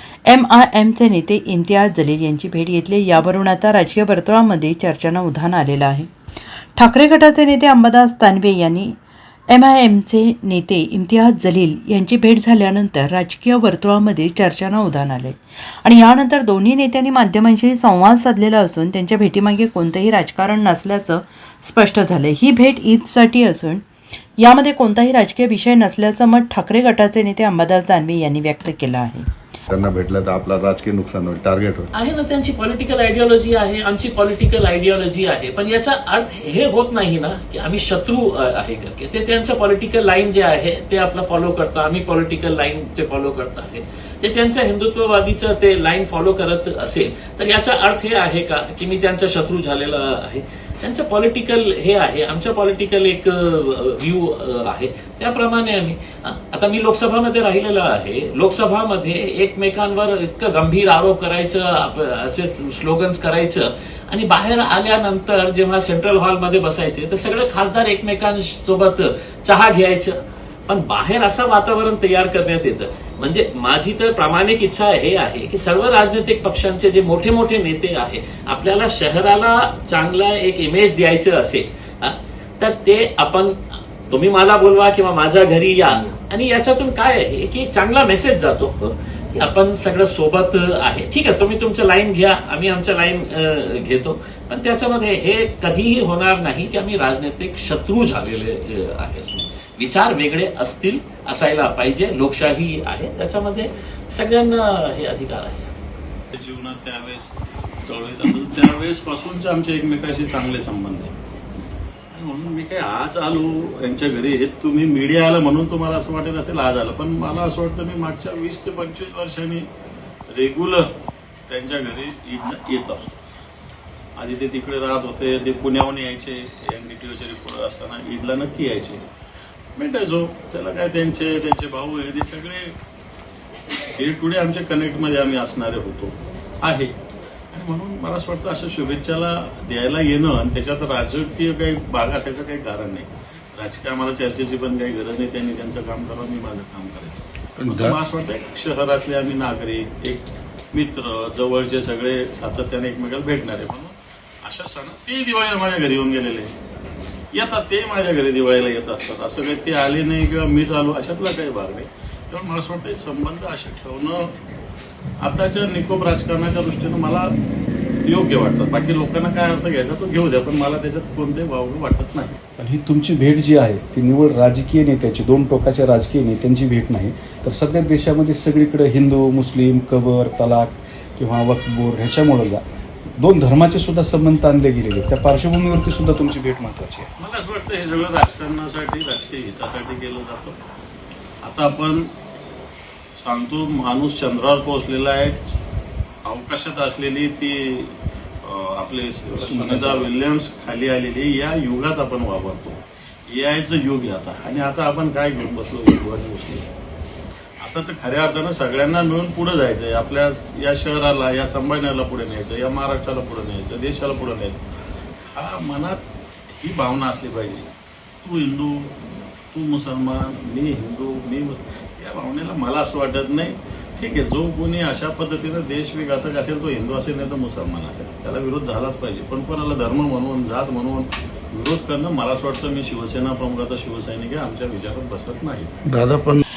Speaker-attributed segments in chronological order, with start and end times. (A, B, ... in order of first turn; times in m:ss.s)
0:00.3-0:06.1 A
0:06.8-0:09.0 A
0:09.5-0:23.8 A
0:24.4-0:29.3 A
0:29.7-0:31.9 B
0:31.9-1:45.7 C
1:46.3-1:51.2 D
1:52.1-1:59.7 D
2:00.3-2:00.9 D
2:01.5-2:03.1 D
2:04.2-2:09.0 D
2:09.8-2:12.8 D
2:13.9-2:17.0 D
2:17.5-2:36.5 D
2:27.6-2:28.0 B
2:37.3-2:44.4 D
2:45.2-2:47.4 D
2:48.1-2:52.4 D
2:52.6-3:02.6 E
3:03.2-3:07.1 E
3:07.2-3:10.6 D
3:11.4-3:12.1 D
3:13.2-3:15.6 D
3:16.2-3:26.7 D
3:19.4-3:20.1 E
3:27.6-3:34.7 D
3:35.3-3:55.8 D
3:55.8-3:56.4 B